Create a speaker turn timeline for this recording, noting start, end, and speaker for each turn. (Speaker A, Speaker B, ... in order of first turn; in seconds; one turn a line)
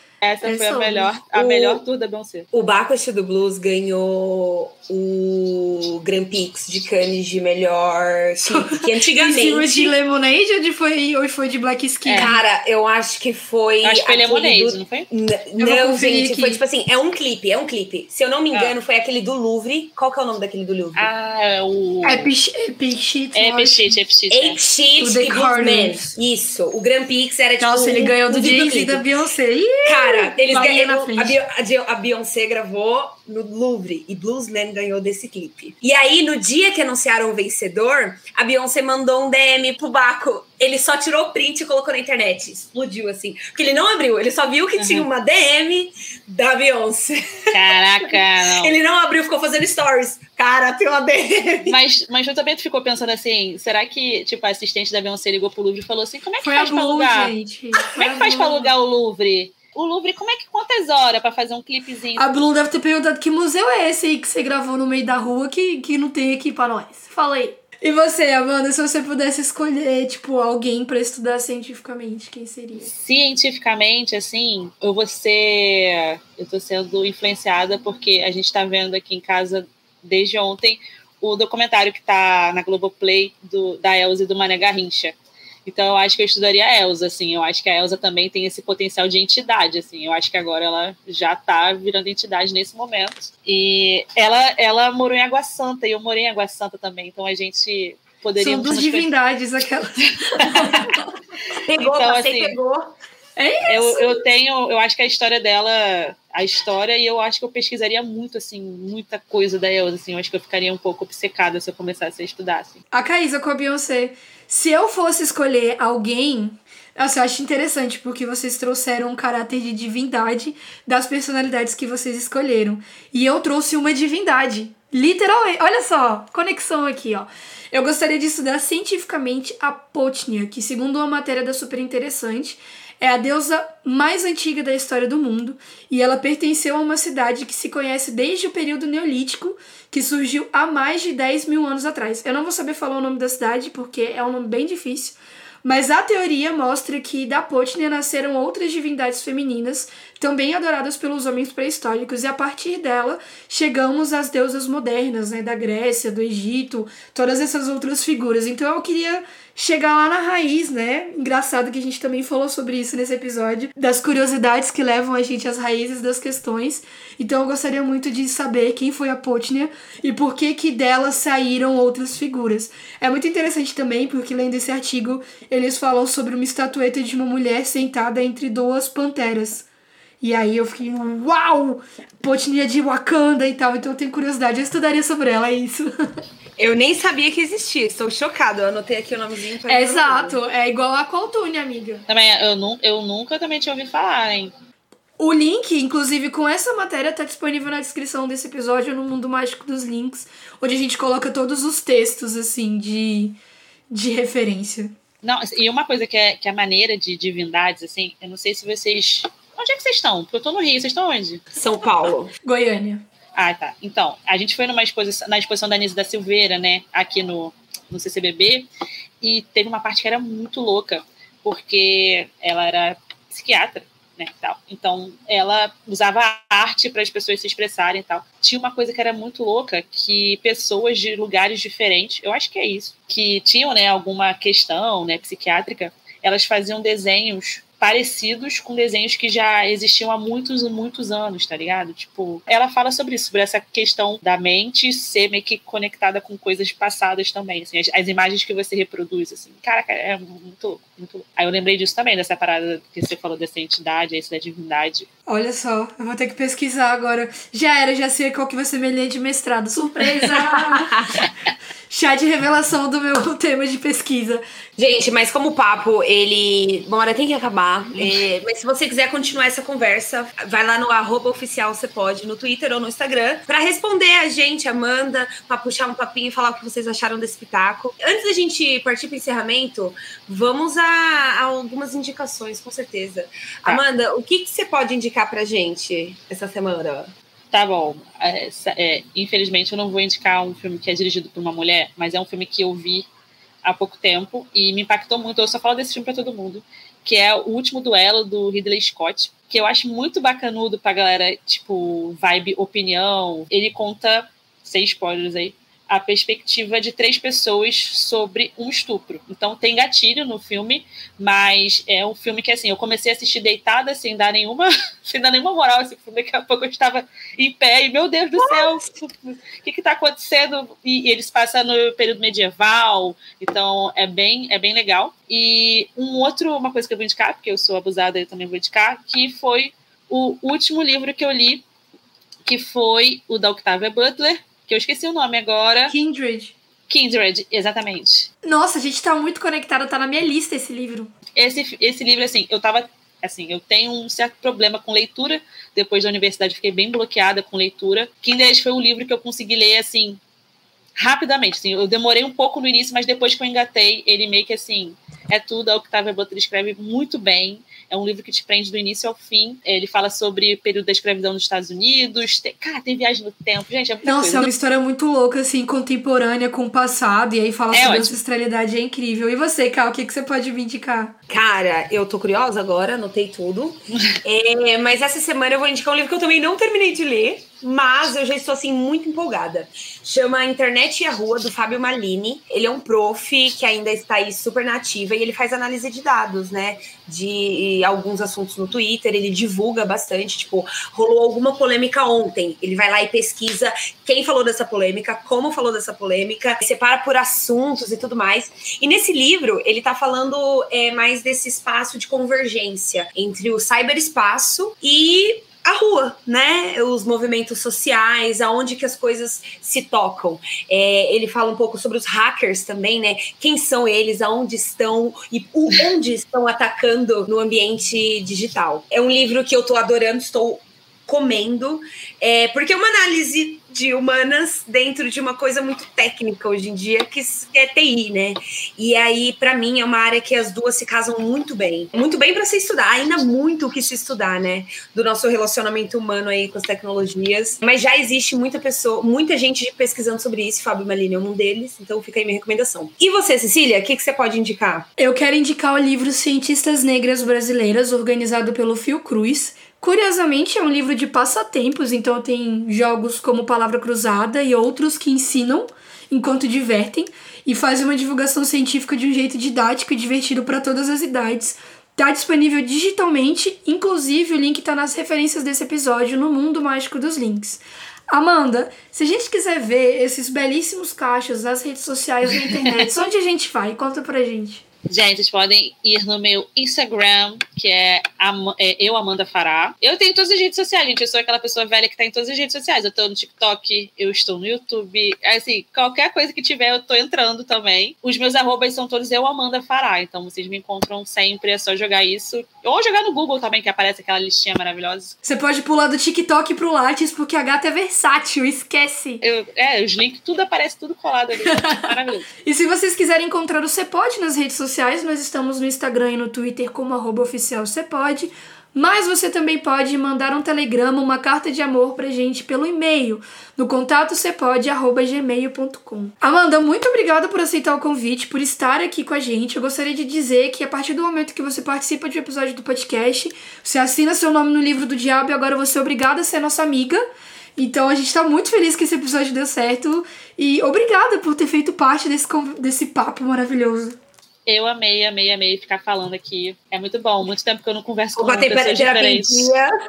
Speaker A: 0.2-2.5
Speaker B: 0.4-1.1
Speaker C: 1.3-1.8
Speaker C: 2.5-9.9
Speaker B: 8.5-12.4
Speaker A: 12.0-12.3
Speaker C: 12.2-21.1
Speaker A: 13.8-15.1
Speaker B: 15.6-16.6
Speaker A: 20.9-22.3
Speaker B: 22.0-23.9
Speaker A: 23.3-24.6
Speaker C: 24.3-29.0
Speaker B: 25.0-26.1
Speaker B: 27.6-31.4
Speaker C: 29.8-51.8
Speaker A: 44.8-45.1
Speaker A: 47.5-48.7
Speaker A: 51.6-57.3
Speaker B: 56.4-58.7
Speaker A: 57.9-62.3
Speaker B: 62.2-72.9
Speaker A: 72.8-99.1
Speaker B: 98.4-101.0
Speaker A: 100.0-101.0
Speaker C: 101.7-102.9
Speaker A: 101.8-102.5
Speaker B: 103.4-104.2
Speaker A: 103.7-112.8
Speaker B: 112.9-179.7
Speaker B: 180.2-185.9
Speaker C: 186.6-190.4
Speaker B: 189.7-192.0
Speaker A: 192.1-194.5
Speaker B: 195.2-203.4
Speaker B: 203.9-204.9
Speaker A: 205.2-211.4
Speaker C: 211.6-212.3
Speaker B: 212.4-213.0
Speaker A: 213.3-218.7
Speaker A: 219.2-255.1
Speaker B: 255.3-261.2
Speaker C: 260.4-261.2
Speaker B: 261.9-264.4
Speaker C: 264.8-287.1
Speaker A: 287.5-293.1
Speaker A: 293.6-331.6
Speaker C: 318.4-318.9
Speaker A: 332.4-335.9
Speaker B: 335.9-336.5
Speaker A: 336.9-338.3
Speaker B: 338.4-341.1
Speaker A: 341.3-350.2
Speaker A: 351.0-364.5
Speaker B: 364.0-371.1
Speaker A: 367.7-368.1
Speaker C: 371.3-444.9
Speaker B: 445.0-474.6
Speaker A: 472.7-472.9
Speaker A: 474.9-495.1
Speaker B: 495.2-499.2
Speaker A: 499.2-502.3
Speaker B: 501.4-501.9
Speaker B: 502.4-527.0
Speaker B: 527.6-534.0
Speaker A: 534.5-539.5
Speaker C: 538.1-539.7